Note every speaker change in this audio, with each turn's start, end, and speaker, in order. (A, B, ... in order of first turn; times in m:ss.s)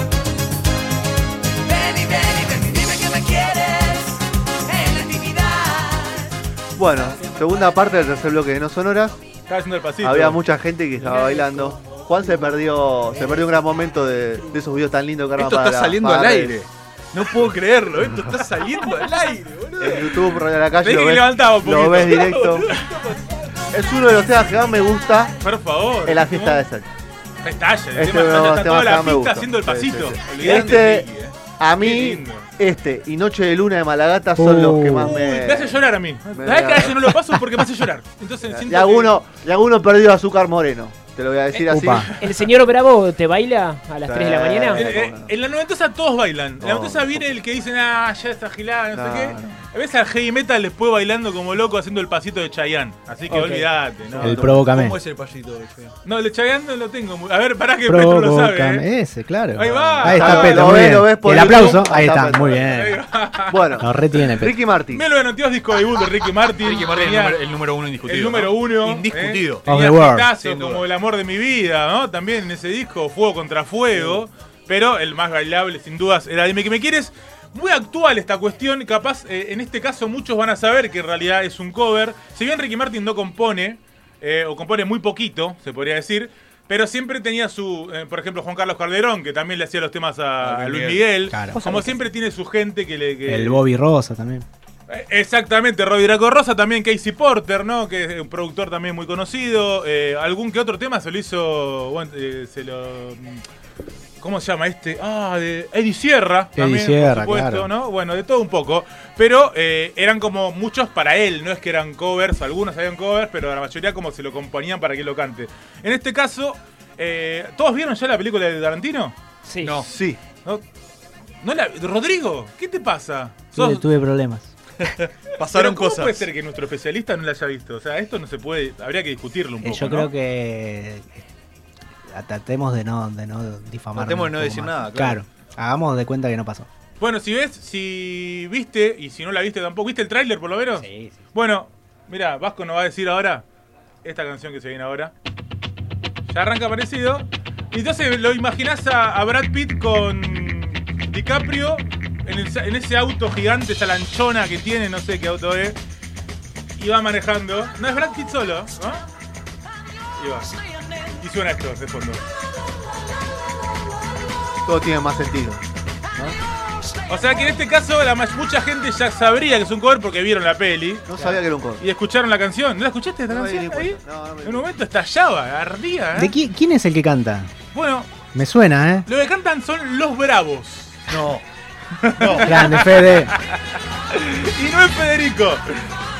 0:01.6-0:06.3 A
0:06.8-0:09.2 B
0:09.5-0:10.4 C
0:10.0-0:16.5 B
0:11.1-0:11.7 D
0:15.4-0:20.2 E
0:19.8-0:22.7 B
0:20.8-0:23.0 C
0:22.6-0:23.2 E
0:23.7-0:25.3 B
0:25.4-0:26.6 C
0:26.0-0:26.8 B
0:27.4-0:32.5 C
0:27.9-0:31.1 B
0:30.4-0:31.3 E
0:31.6-0:35.8 B
0:34.4-0:35.2 F
0:35.0-0:39.1 C
0:36.3-0:37.2 B
0:38.5-0:42.1 B
0:41.6-0:42.4 C
0:41.7-0:42.1 F
0:42.2-0:44.9 D
0:44.0-0:45.3 B
0:44.7-0:54.4 C
0:46.6-0:47.2 B
0:48.9-0:49.5 B
0:53.3-0:53.7 D
0:54.2-0:55.9 E
0:54.2-0:54.7 B
0:54.2-0:55.0 F
0:56.0-0:58.9 C
0:57.9-1:03.0 F
0:59.5-1:00.9 C
0:59.6-1:00.1 E
1:00.0-1:02.7 B
1:02.6-1:03.9 C
1:03.5-1:05.0 B
1:03.8-1:04.6 F
1:04.9-1:07.4 C
1:06.6-1:09.7 E
1:08.0-1:33.6 C
1:09.7-1:10.3 F
1:10.4-1:10.8 E
1:30.4-1:31.0 E
1:31.3-1:31.9 F
1:33.2-1:34.4 F
1:34.9-1:43.4 C
1:44.2-1:59.1 C
1:46.6-1:47.7 F
1:59.4-1:59.8 D
1:59.6-2:00.1 E
1:59.9-2:00.2 B
2:01.4-2:03.9 C
2:03.5-2:04.5 F
2:04.8-2:06.3 E
2:05.4-2:10.1 C
2:09.6-2:11.2 F
2:12.1-2:16.7 F
2:14.0-2:15.2 E
2:17.0-2:23.4 C
2:20.8-2:21.1 F
2:24.0-2:25.1 C
2:26.3-2:35.8 C
2:36.8-2:39.0 C
2:40.2-2:40.5 C
2:41.2-2:42.2 C
2:44.6-2:45.6 B
2:47.1-2:56.3 C
2:51.1-2:51.8 B
2:53.3-2:54.7 B
2:56.1-2:57.5 F
2:57.7-2:58.1 C
2:58.3-2:59.0 F
2:59.0-3:01.0 C
3:01.1-3:01.4 E
3:02.0-3:03.6 C
3:02.2-3:02.6 E
3:02.4-3:03.3 F
3:04.1-3:05.6 C